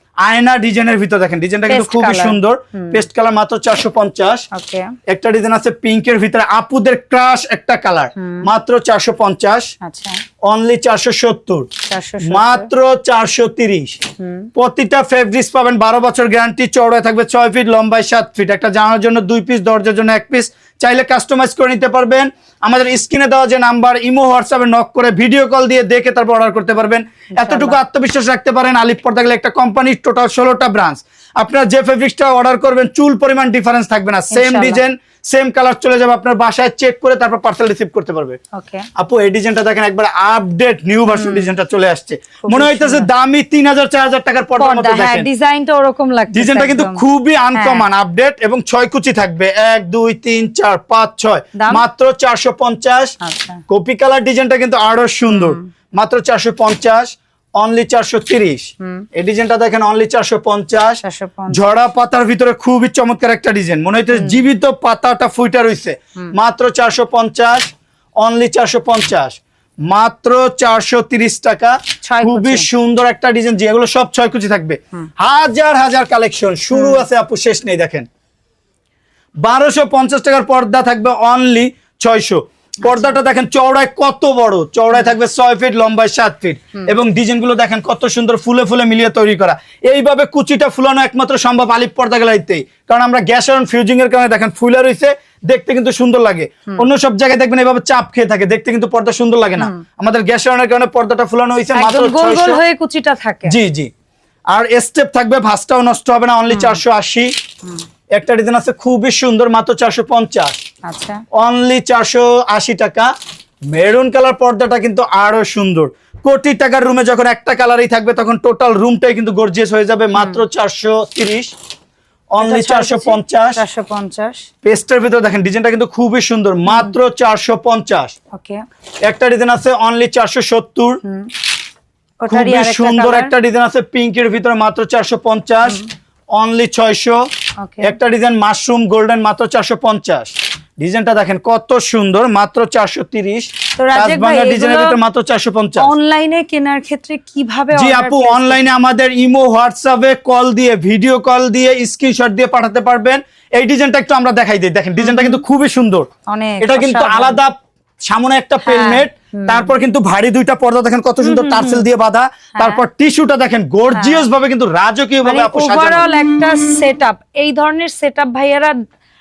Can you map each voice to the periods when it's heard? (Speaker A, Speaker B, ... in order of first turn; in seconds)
Speaker A: 0.2-4.5, 5.1-9.7, 10.4-11.7, 12.2-14.0, 14.6-38.4, 39.0-45.3, 46.3-53.2, 53.7-78.1, 79.4-102.6, 103.5-103.9, 104.5-107.3, 108.1-110.6, 111.3-113.1, 113.7-121.5, 122.3-123.6, 124.6-128.1, 129.0-131.0, 132.3-135.8, 136.3-137.3, 137.8-145.9, 147.8-156.1, 156.6-166.1
Speaker B: 1.7-3.0, 4.5-4.9, 8.2-8.5, 9.8-10.2, 11.9-12.7, 14.2-14.5, 27.3-27.8, 34.3-34.8, 38.5-38.9, 41.1-41.5, 42.4-43.1, 44.6-47.0, 47.5-47.9, 51.6-51.8, 53.2-53.6, 55.3-55.7, 61.0-61.6, 64.1-64.4, 72.0-72.7, 76.7-77.1, 82.8-83.2, 101.7-103.5, 106.5-106.8, 110.8-111.2, 120.2-120.4, 122.4-124.5, 126.7-126.9, 128.3-128.6, 131.0-131.3, 132.2-133.3, 137.6-137.9, 143.8-145.0, 145.8-148.6, 155.0-155.4, 156.3-157.4, 158.6-159.7, 161.2-161.9, 162.6-162.8, 163.9-164.3, 165.2-168.8